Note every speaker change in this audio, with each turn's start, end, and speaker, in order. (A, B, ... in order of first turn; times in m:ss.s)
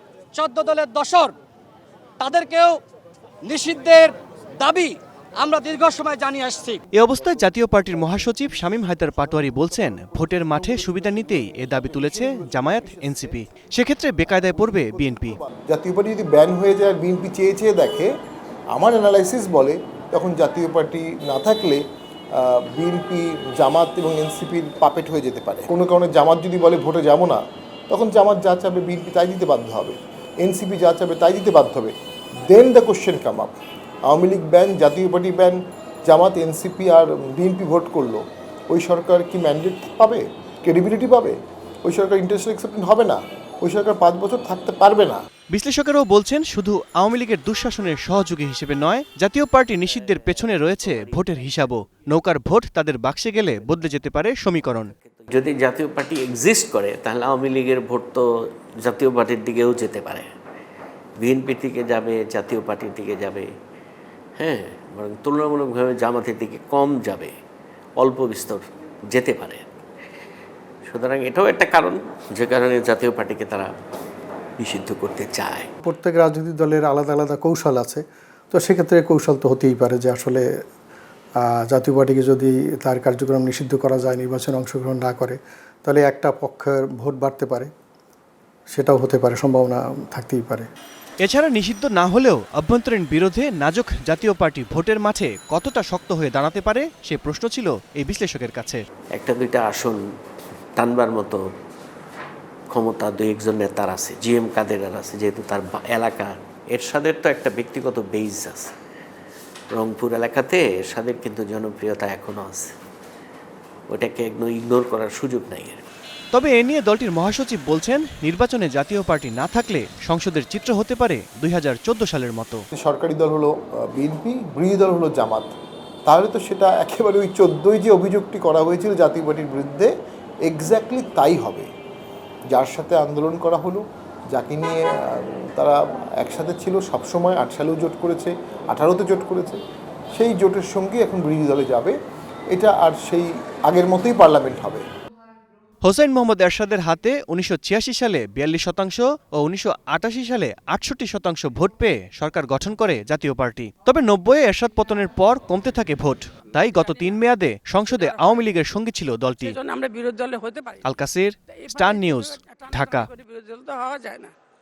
0:00.3-0:01.3 A
0:02.2-0:02.8 A
0:03.5-0:06.8 A
0:06.9-0:15.4 B
0:11.9-0:13.4 C
0:14.4-0:18.1 C
0:18.7-0:21.8 C
0:22.4-0:31.9 C
0:32.5-0:33.5 C
0:34.0-0:45.2 C
0:45.5-0:54.9 B
0:49.8-0:51.9 D
0:53.4-0:53.9 D
0:54.6-0:58.3 D
0:58.8-1:00.3 D
1:01.2-1:03.5 D
1:04.4-1:07.3 D
1:08.0-1:09.7 D
1:10.8-1:13.7 D
1:14.6-1:15.7 D
1:15.8-1:20.4 E
1:21.7-1:27.7 E
1:28.7-1:30.7 E
1:31.2-1:38.8 B
1:39.1-1:40.0 D
1:40.8-1:41.4 D
1:42.7-1:48.7 D
1:49.7-1:52.7 D
1:53.9-1:55.8 D
1:56.3-2:02.6 B
2:02.7-2:05.5 C
2:06.0-2:09.9 C
2:10.4-2:11.7 C
2:12.5-2:19.6 C
2:20.1-2:21.9 C
2:22.5-2:24.8 C
2:25.8-2:39.6 B
2:37.9-2:38.4 F
2:39.5-2:40.8 F
2:40.8-2:43.1 B
2:41.7-2:44.3 F